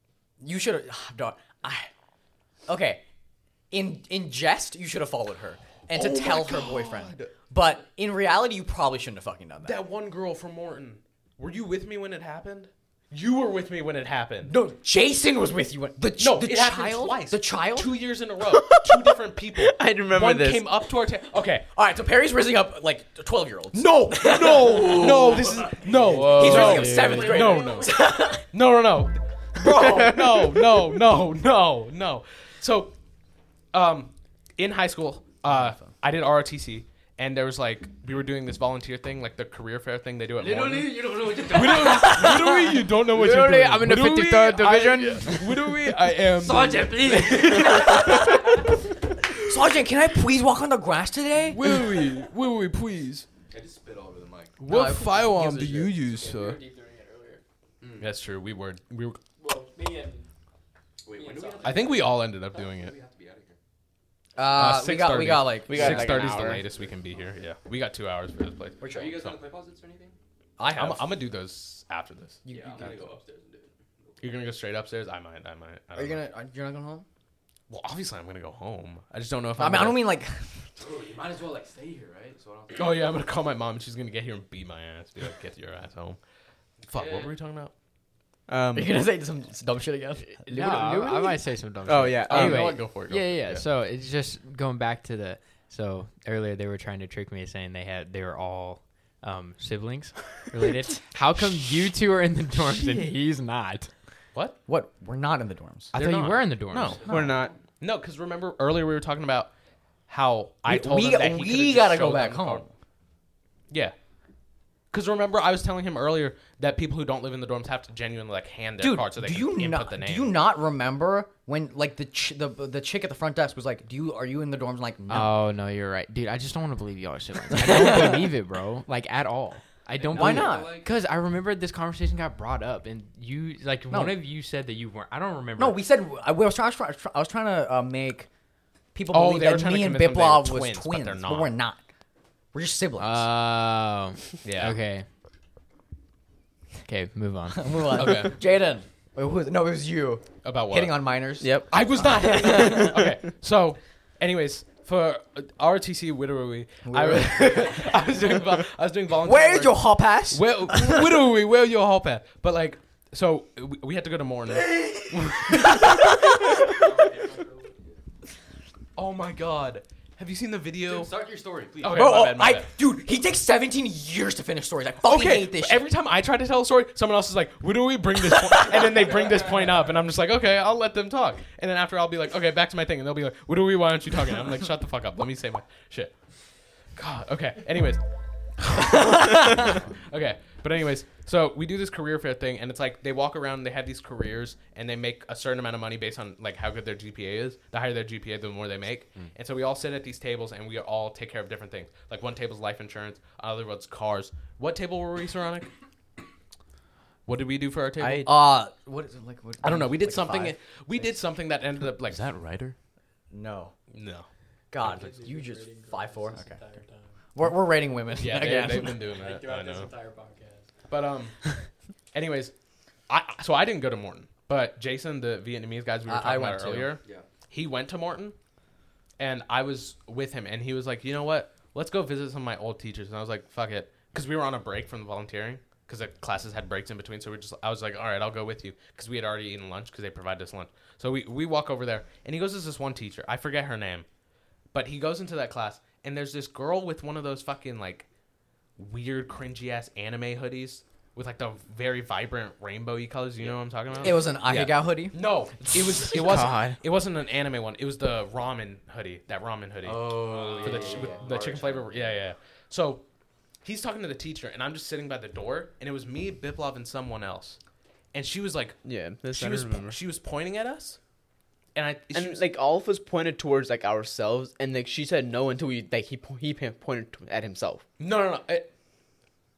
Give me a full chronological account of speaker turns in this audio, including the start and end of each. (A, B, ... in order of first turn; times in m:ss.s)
0:00.4-0:01.9 A
0:02.7-0:03.0 A
0:03.7-0:09.8 A
0:05.9-0:07.3 B
0:09.6-0:14.5 B
0:14.4-0:18.0 A
0:16.2-0:21.7 B
0:19.5-0:20.7 C
0:21.7-0:28.4 A
0:23.7-0:27.9 B
0:25.0-0:25.8 D
0:26.1-0:27.7 E
0:26.2-0:27.1 C
0:28.4-0:32.9 B
0:29.8-0:30.2 C
0:33.7-0:48.5 B
0:35.5-0:35.9 A
0:40.3-0:42.4 D
0:41.8-0:45.4 E
0:46.4-0:48.0 D
0:47.7-0:48.4 A
0:49.3-0:51.7 A
0:51.5-0:53.3 B
0:53.5-0:54.6 D
0:54.6-0:56.6 B
0:54.7-0:55.9 A
0:55.6-0:57.4 E
0:57.8-0:58.1 D
0:58.0-0:59.2 B
0:59.4-1:00.3 E
1:01.0-1:03.6 D
1:01.1-1:01.9 E
1:01.6-1:02.9 B
1:04.4-1:06.3 A
1:04.4-1:09.4 B
1:05.7-1:06.6 C
1:05.9-1:07.5 D
1:08.8-1:10.2 D
1:08.8-1:09.1 A
1:10.6-1:11.1 A
1:10.8-1:12.4 B
1:12.4-1:13.1 A
1:12.5-1:14.2 D
1:14.2-1:16.2 B
1:15.9-1:17.0 A
1:17.7-1:20.1 B
1:19.6-1:20.7 A
1:20.8-1:23.2 D
1:22.7-1:26.2 B
1:26.9-1:27.7 B
1:26.9-1:27.4 D
1:28.5-1:29.0 C
1:28.7-1:31.3 A
1:30.4-1:43.9 E
1:31.8-1:32.9 C
1:32.3-1:33.6 B
1:44.6-1:45.9 A
1:45.9-1:47.3 B
1:45.9-1:47.0 E
1:46.8-1:47.6 D
1:47.1-1:47.5 C
1:47.8-1:49.5 B
1:50.1-1:52.6 B
1:50.6-1:52.7 A
1:54.9-2:00.3 B
1:58.8-2:05.3 A
2:05.1-2:15.8 E
2:07.5-2:08.2 A
2:09.9-2:10.9 D
2:10.1-2:10.8 A
2:13.9-2:14.2 A
2:15.6-2:18.3 A
2:18.9-2:21.8 A
2:19.1-2:21.5 B
2:22.5-2:23.3 A
2:23.0-2:25.0 E
2:24.4-2:24.8 B
2:26.8-2:28.3 E
2:27.5-2:32.8 A
2:28.0-2:28.3 B
2:30.4-2:31.0 B
2:31.4-2:33.0 C
2:31.7-2:45.9 B
2:36.8-2:38.4 A
2:39.2-2:41.2 A
2:44.5-2:45.4 D
2:46.6-2:48.0 D
2:49.0-2:51.1 B
2:50.8-2:52.2 D
2:51.8-2:52.7 B
2:51.8-2:55.9 A
2:55.0-3:06.1 B
2:59.0-2:59.5 D
3:06.9-3:08.0 B
3:08.6-3:25.7 B
3:27.3-3:28.3 B
3:28.0-3:28.3 C
3:28.2-3:31.1 A
3:29.6-3:32.2 B
3:32.0-3:32.8 D
3:33.3-3:33.7 A
3:33.9-3:34.3 B
3:34.7-3:36.6 A
3:34.8-3:37.2 E
3:37.3-3:39.1 A
3:38.2-3:39.9 B
3:39.0-3:40.7 E
3:40.9-3:42.5 B
3:43.1-3:48.3 B
3:46.0-3:46.9 A
3:49.2-4:04.0 B
4:04.7-4:08.1 B
4:08.8-4:23.0 B
4:13.4-4:14.2 D
4:14.0-4:15.2 A
4:16.1-4:16.8 C
4:19.8-4:22.2 D
4:23.6-4:27.6 B
4:28.1-4:31.0 B
4:28.8-4:30.0 C
4:31.7-4:32.5 B
4:32.1-4:37.8 C
4:38.0-4:38.7 B